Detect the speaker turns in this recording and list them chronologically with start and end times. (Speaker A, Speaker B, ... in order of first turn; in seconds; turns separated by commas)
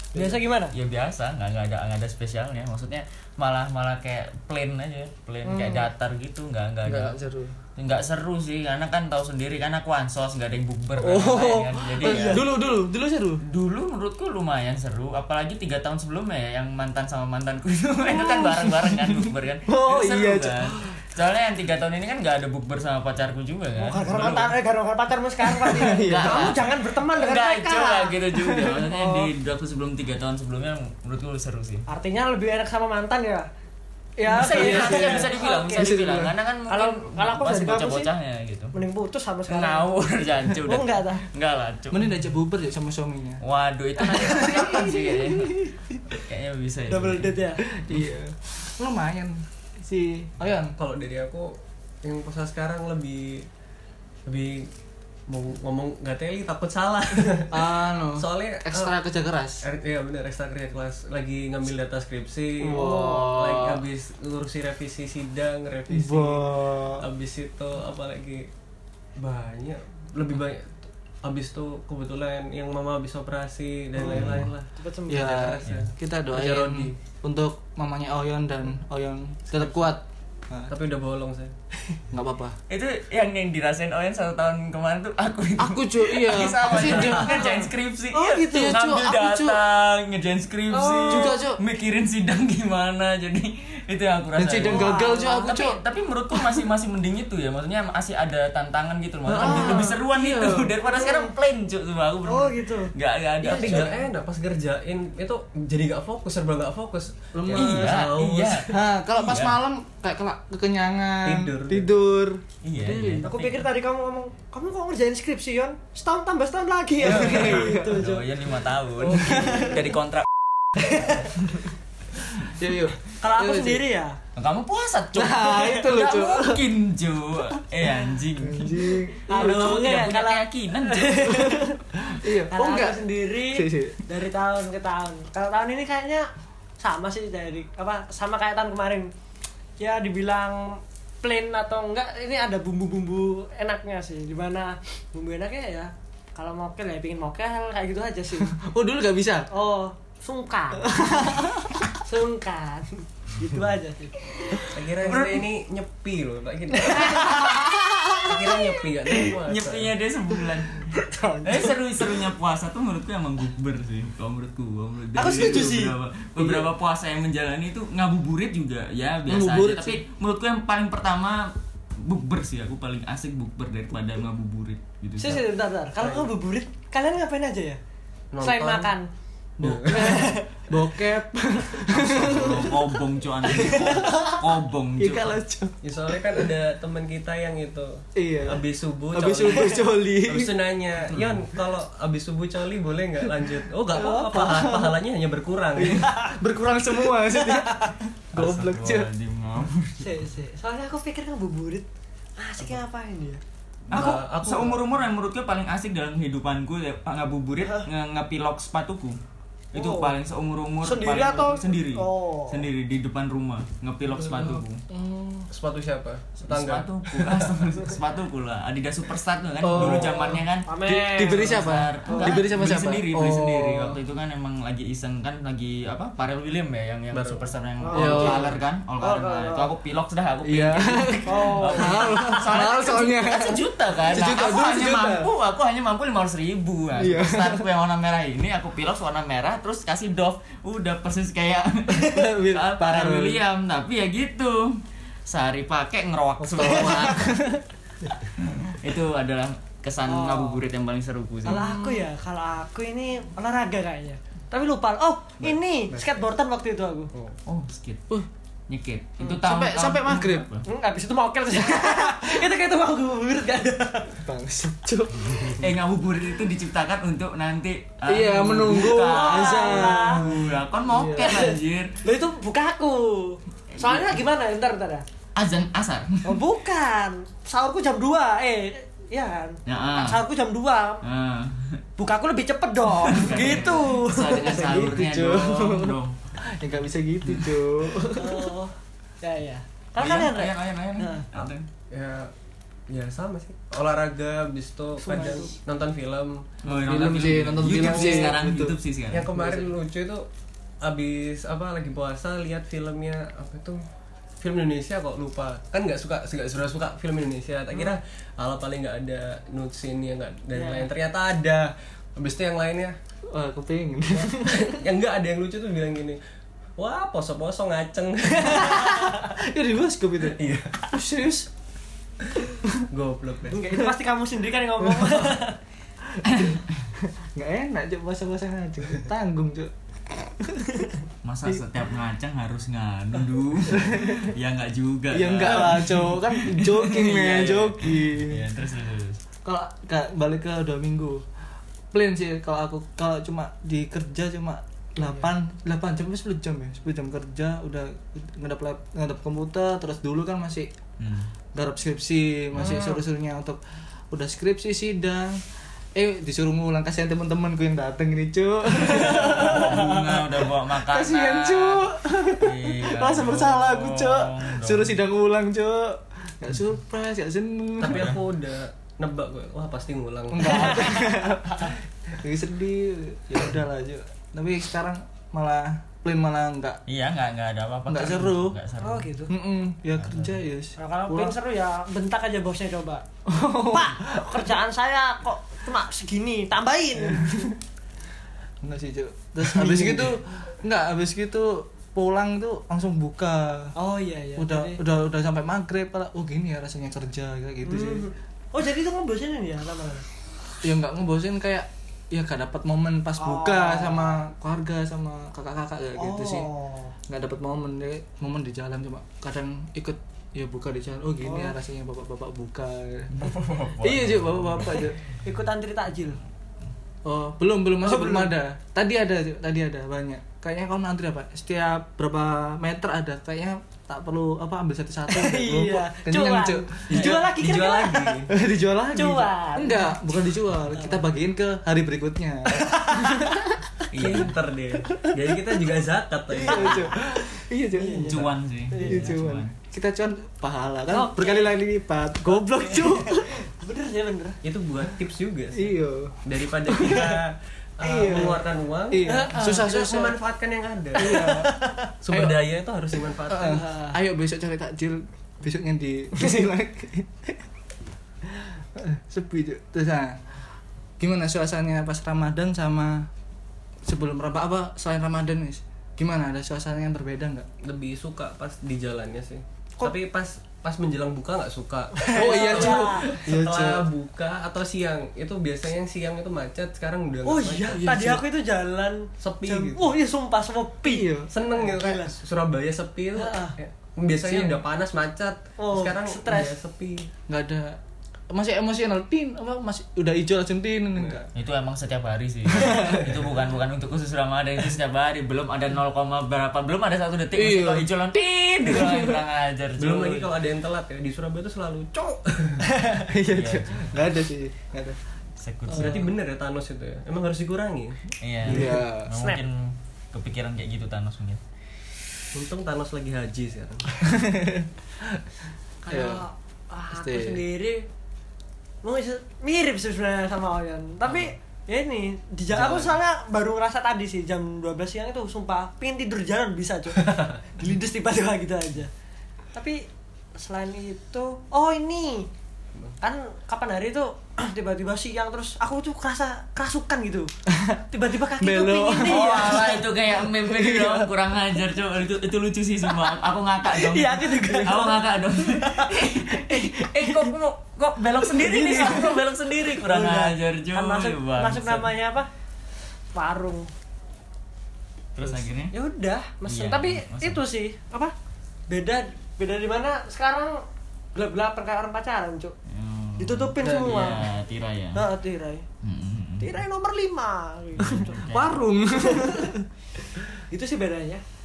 Speaker A: 0.1-0.7, Speaker B: 0.7-7.2, Speaker A: 5.4-5.9, Speaker C: 6.8-7.6, Speaker B: 7.8-12.5, Speaker C: 11.0-13.4, Speaker A: 12.0-12.4, Speaker B: 13.4-24.5, Speaker C: 18.1-20.8, Speaker A: 23.8-28.1, Speaker C: 25.4-26.6, Speaker B: 26.1-31.9, Speaker A: 28.9-29.3, Speaker A: 31.9-33.5, Speaker A: 34.2-35.9, Speaker C: 34.2-36.3, Speaker B: 34.3-38.7, Speaker A: 36.7-38.1, Speaker A: 38.7-39.9, Speaker B: 39.5-42.1, Speaker A: 40.6-41.2, Speaker C: 41.9-43.4, Speaker B: 43.4-47.4, Speaker A: 44.1-45.7, Speaker C: 44.2-45.0, Speaker A: 46.9-47.6, Speaker C: 47.7-50.7, Speaker D: 50.8-53.5, Speaker D: 54.2-54.7, Speaker D: 55.3-59.0, Speaker C: 57.5-59.6, Speaker D: 59.6-68.5, Speaker C: 62.6-63.8, Speaker A: 62.7-63.2, Speaker C: 65.9-67.1, Speaker D: 69.2-74.7, Speaker C: 74.0-74.4, Speaker B: 74.0-74.5, Speaker A: 74.7-75.6, Speaker C: 75.1-80.7, Speaker D: 75.6-76.9, Speaker D: 79.5-80.0, Speaker D: 80.7-82.0, Speaker C: 82.1-82.6, Speaker B: 82.7-94.9, Speaker C: 85.6-87.4, Speaker A: 87.1-88.8, Speaker C: 88.4-89.6, Speaker A: 90.7-91.4, Speaker C: 91.1-91.6, Speaker C: 94.4-95.8, Speaker A: 94.6-95.6, Speaker B: 95.5-104.1, Speaker C: 99.3-100.7, Speaker A: 99.3-99.9, Speaker A: 100.8-101.3, Speaker A: 102.2-102.9, Speaker D: 103.4-108.8, Speaker C: 107.3-113.3, Speaker B: 107.5-109.6, Speaker D: 111.2-111.9, Speaker B: 112.6-113.6, Speaker A: 113.2-118.3, Speaker C: 117.0-118.0, Speaker B: 117.0-120.3, Speaker A: 119.0-119.8, Speaker C: 119.1-119.8, Speaker A: 120.8-121.3, Speaker C: 122.4-123.8, Speaker A: 123.2-124.2, Speaker B: 124.3-131.5, Speaker C: 125.1-126.7, Speaker C: 128.3-129.8, Speaker A: 129.3-131.8, Speaker C: 131.3-134.0, Speaker A: 132.5-136.3, Speaker A: 136.8-139.1, Speaker A: 139.8-148.6, Speaker C: 148.4-149.5, Speaker A: 149.5-154.7, Speaker C: 150.8-151.7, Speaker D: 154.7-157.4, Speaker B: 155.0-155.4, Speaker A: 156.9-157.6, Speaker C: 157.1-158.6, Speaker D: 158.2-159.9, Speaker B: 159.3-175.4, Speaker A: 160.9-161.7, Speaker A: 165.1-165.9, Speaker C: 169.3-170.0, Speaker A: 175.2-177.8, Speaker D: 175.9-176.3, Speaker D: 178.3-178.9, Speaker A: 178.4-179.1, Speaker C: 179.6-182.9, Speaker D: 179.6-180.3, Speaker A: 179.9-181.1, Speaker B: 181.9-185.3, Speaker C: 183.5-184.4, Speaker A: 183.9-184.3, Speaker C: 185.0-186.5, Speaker D: 185.8-196.1, Speaker C: 188.2-190.5, Speaker B: 191.0-191.4, Speaker C: 193.9-195.0, Speaker A: 194.0-194.4, Speaker C: 195.8-199.1, Speaker A: 197.5-197.8, Speaker B: 198.3-200.2, Speaker A: 200.0-201.9, Speaker A: 202.4-203.4, Speaker B: 203.9-209.2, Speaker D: 203.9-204.8, Speaker B: 209.7-214.8, Speaker A: 209.7-210.1, Speaker A: 210.8-212.7, Speaker C: 214.2-215.5, Speaker D: 215.5-217.7, Speaker B: 216.4-247.4, Speaker C: 219.6-224.0, Speaker D: 219.8-220.1, Speaker A: 220.6-222.3, Speaker D: 227.1-227.4, Speaker A: 227.8-229.7, Speaker C: 227.9-228.6, Speaker C: 230.4-235.3, Speaker A: 231.2-232.7, Speaker C: 237.0-237.7, Speaker C: 241.9-243.4, Speaker A: 246.6-247.4, Speaker C: 246.6-247.6, Speaker B: 248.6-251.6, Speaker A: 250.1-250.6, Speaker C: 251.4-252.1, Speaker A: 251.4-257.1, Speaker C: 255.4-256.0, Speaker B: 257.4-258.1, Speaker B: 258.7-260.6, Speaker C: 259.2-260.5, Speaker A: 260.6-264.1, Speaker C: 261.7-262.1, Speaker C: 264.1-265.6, Speaker B: 265.3-271.9, Speaker C: 268.1-271.4, Speaker A: 268.8-270.2, Speaker A: 271.2-275.0, Speaker B: 273.7-274.1, Speaker B: 275.3-276.4, Speaker A: 276.2-281.0, Speaker B: 279.7-280.2, Speaker B: 281.0-281.8, Speaker A: 282.0-284.9, Speaker B: 283.0-286.2, Speaker C: 284.4-288.5, Speaker B: 287.2-287.5, Speaker A: 288.1-291.2, Speaker B: 290.0-291.6, Speaker D: 291.3-292.3, Speaker D: 292.9-298.4, Speaker A: 295.0-295.6, Speaker B: 296.6-299.4, Speaker C: 296.7-298.8, Speaker D: 299.1-300.3, Speaker C: 299.4-299.7, Speaker D: 300.8-303.8, Speaker D: 304.4-312.9, Speaker A: 310.5-310.9, Speaker C: 313.3-314.8, Speaker D: 314.2-316.2, Speaker D: 316.8-319.1, Speaker C: 318.6-321.5, Speaker D: 320.2-320.9, Speaker D: 322.9-323.6, Speaker A: 323.5-325.6, Speaker C: 324.8-325.4, Speaker C: 326.0-330.9, Speaker B: 326.2-326.6, Speaker B: 331.2-339.2, Speaker C: 333.7-334.3, Speaker C: 335.1-338.4, Speaker C: 339.4-341.2, Speaker C: 341.9-350.7, Speaker B: 351.0-351.3, Speaker C: 351.5-353.6, Speaker A: 352.6-353.0, Speaker C: 354.1-355.4, Speaker C: 355.9-368.1, Speaker B: 358.7-364.9, Speaker D: 367.8-371.0, Speaker B: 367.8-368.2, Speaker C: 370.3-376.8, Speaker A: 370.4-371.2, Speaker B: 376.9-379.1, Speaker C: 377.9-378.6, Speaker A: 378.8-379.3, Speaker C: 379.3-381.4, Speaker B: 380.0-380.4, Speaker A: 380.8-383.0, Speaker C: 383.2-384.5, Speaker A: 383.6-387.5, Speaker C: 387.1-387.5, Speaker C: 388.6-393.7, Speaker A: 393.7-394.8, Speaker C: 394.4-398.1, Speaker A: 397.6-400.0, Speaker C: 400.6-406.5, Speaker A: 403.2-404.2, Speaker A: 406.0-406.9, Speaker C: 407.1-415.0, Speaker A: 411.2-411.5, Speaker B: 413.1-414.9, Speaker A: 415.2-416.2, Speaker C: 417.0-427.1, Speaker A: 417.8-418.3, Speaker A: 425.1-428.2, Speaker D: 426.9-428.3, Speaker C: 428.3-433.6, Speaker A: 428.9-430.0, Speaker A: 430.7-431.0, Speaker A: 432.5-433.4, Speaker B: 433.9-434.4, Speaker D: 433.9-436.9, Speaker C: 434.8-435.6, Speaker C: 436.3-443.4, Speaker A: 436.5-437.0, Speaker A: 437.7-439.1, Speaker B: 438.1-439.5, Speaker A: 440.9-441.6, Speaker A: 442.3-444.4, Speaker D: 444.4-451.3, Speaker C: 445.5-447.2, Speaker C: 447.8-450.2, Speaker A: 447.8-448.4, Speaker A: 449.0-449.9, Speaker A: 450.9-451.9, Speaker C: 450.9-451.5, Speaker D: 452.0-453.7, Speaker C: 452.1-452.5, Speaker C: 453.3-457.4, Speaker A: 453.4-453.9, Speaker C: 458.3-460.2, Speaker C: 461.0-463.1, Speaker C: 463.8-467.5, Speaker D: 467.6-477.9, Speaker A: 472.0-473.1, Speaker C: 472.1-473.9, Speaker A: 477.2-482.1, Speaker C: 477.7-478.2, Speaker D: 479.2-479.9, Speaker C: 480.9-481.3, Speaker D: 481.3-487.1, Speaker A: 483.1-483.6, Speaker C: 484.2-484.6, Speaker A: 485.6-486.5, Speaker C: 487.3-487.8, Speaker C: 488.3-491.2, Speaker D: 490.9-491.3, Speaker B: 491.3-500.3, Speaker C: 492.5-493.0, Speaker C: 497.3-499.2, Speaker D: 499.8-502.7, Speaker C: 503.0-505.0, Speaker B: 503.3-504.0, Speaker B: 505.4-506.1, Speaker A: 505.7-506.0, Speaker D: 505.7-508.8, Speaker B: 508.2-511.4, Speaker C: 508.5-509.1, Speaker A: 509.1-509.4, Speaker D: 512.3-514.1, Speaker C: 514.0-515.2, Speaker A: 515.8-517.9, Speaker C: 515.9-516.2, Speaker C: 516.9-517.4, Speaker A: 518.8-528.9, Speaker D: 522.5-522.9, Speaker D: 527.0-527.4, Speaker A: 529.5-529.8, Speaker A: 530.4-532.3, Speaker A: 533.0-537.3, Speaker C: 537.5-537.8, Speaker A: 537.9-539.6, Speaker C: 538.4-539.8, Speaker B: 539.0-551.9, Speaker C: 540.4-541.1, Speaker A: 543.7-547.3, Speaker A: 548.2-549.2, Speaker A: 549.7-552.3, Speaker A: 553.1-553.7, Speaker B: 555.1-555.7, Speaker A: 555.7-558.1, Speaker B: 556.5-557.4, Speaker A: 558.7-560.6, Speaker A: 561.1-562.5, Speaker B: 562.7-565.0, Speaker A: 563.2-564.3, Speaker D: 563.6-564.1, Speaker A: 564.9-565.6, Speaker B: 565.8-566.6, Speaker A: 566.4-568.2, Speaker B: 567.8-568.6, Speaker C: 567.8-569.6, Speaker A: 569.0-569.5, Speaker A: 570.1-571.2